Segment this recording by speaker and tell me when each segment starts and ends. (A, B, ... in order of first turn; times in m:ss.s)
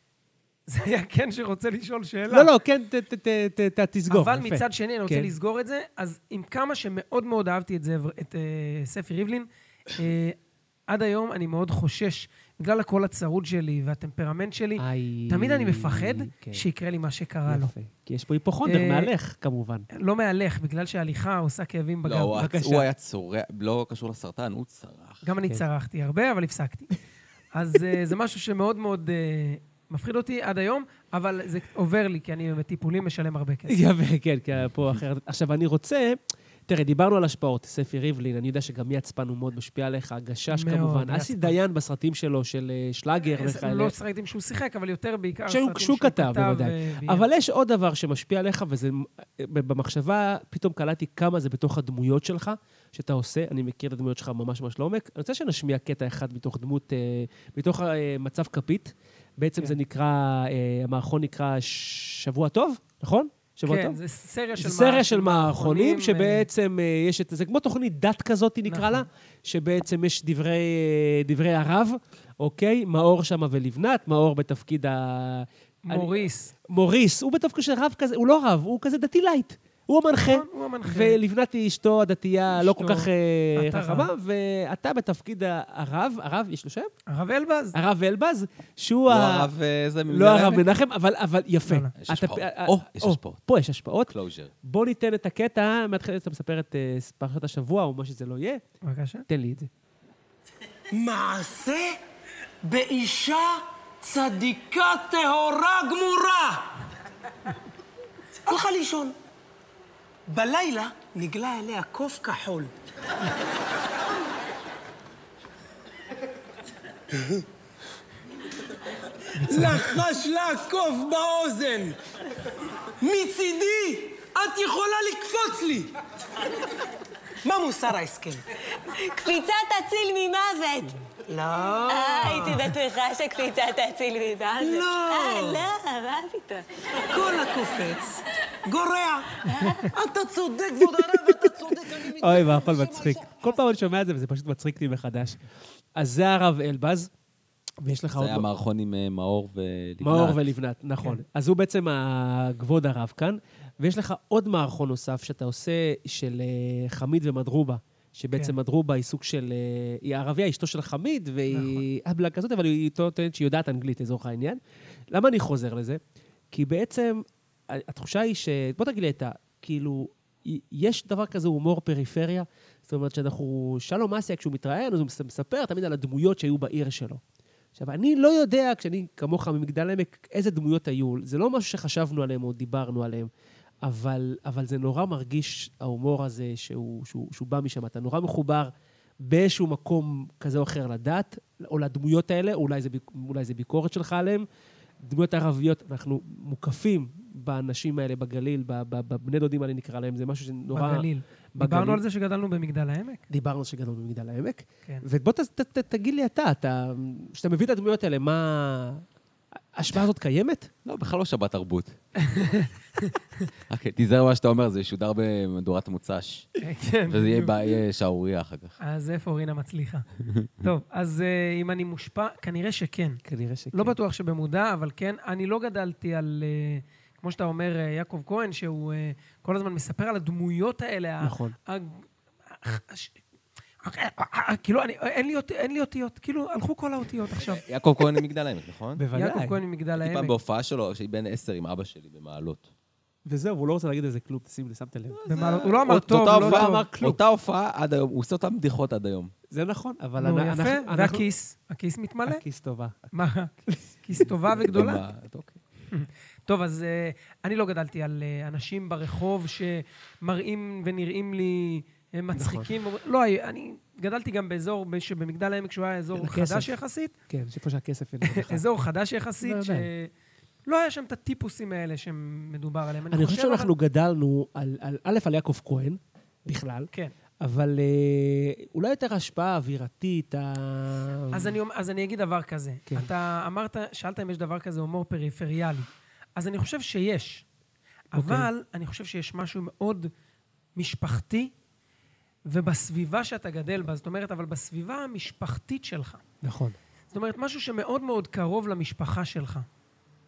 0:00.7-0:02.5 A
0:02.3-0:05.3 B
0:04.1-0:10.4 A
0:10.9-0:17.7 A
0:14.8-0:16.6 B
0:17.5-0:19.9 B
0:18.6-0:19.1 A
0:19.9-0:22.5 A
0:22.0-0:25.2 C
0:22.3-0:22.9 B
0:25.2-0:26.9 A
0:27.5-0:33.8 A
0:33.7-0:43.9 B
0:40.5-0:41.6 A
0:43.3-0:47.3 A
0:45.5-1:04.0 B
1:03.6-1:06.5 A
1:04.6-1:26.9 B
1:08.7-1:09.0 A
1:15.8-1:16.5 A
1:20.2-1:21.2 A
1:22.5-1:24.1 A
1:27.1-1:27.8 A
1:27.7-1:29.5 B
1:29.1-1:30.7 C
1:30.1-1:38.6 B
1:31.6-1:31.9 A
1:32.0-1:33.4 C
1:34.1-1:34.5 C
1:38.8-1:39.2 A
1:39.3-1:39.7 B
1:40.9-1:42.0 D
1:42.6-1:46.8 D
1:48.4-1:49.1 D
1:50.3-1:52.7 D
1:57.1-1:57.4 D
1:59.3-1:59.9 A
1:59.4-2:02.0 D
2:03.0-2:05.9 D
2:07.4-2:08.4 D
2:08.9-2:11.0 E
2:11.3-2:12.8 D
2:11.9-2:16.7 E
2:14.6-2:15.7 D
2:17.0-2:23.2 D
2:19.5-2:19.9 E
2:22.0-2:27.1 B
2:27.8-2:28.5 B
2:28.1-2:30.5 C
2:30.0-2:44.6 B
2:41.5-2:41.8 A
2:45.1-2:57.2 B
2:57.8-3:03.3 B
3:03.8-3:14.4 B
3:15.0-3:22.0 B
3:20.7-3:23.2 A
3:23.3-3:29.0 B
3:29.7-3:30.7 B
3:30.8-3:32.0 C
3:32.2-3:33.4 A
3:33.7-3:36.5 C
3:36.6-3:37.5 A
3:37.0-3:38.8 C
3:38.8-3:40.0 A
3:40.6-3:43.2 A
3:43.2-3:44.0 B
3:43.7-3:53.2 A
3:51.2-3:51.6 B
3:53.8-3:57.6 A
3:57.4-3:59.0 C
3:59.0-3:59.6 B
3:59.1-4:00.3 A
4:00.0-4:02.7 C
4:03.2-4:05.2 B
4:05.1-4:09.3 C
4:05.3-4:06.9 A
4:06.1-4:07.2 B
4:09.5-4:11.2 B
4:10.2-4:12.4 A
4:12.2-4:13.1 B
4:13.1-4:15.0 A
4:14.5-4:15.6 C
4:15.9-4:27.1 A
4:22.3-4:22.7 B
4:26.1-4:26.8 B
4:27.3-4:28.6 B
4:28.2-4:30.1 A
4:29.4-4:29.9 B
4:30.6-4:33.7 A
4:33.1-4:41.6 B
4:41.3-4:47.4 A
4:48.1-4:50.1 A
4:48.1-4:48.5 B
4:50.8-4:51.5 A
4:52.5-4:56.2 A
4:56.4-4:56.8 B
4:57.1-4:59.6 A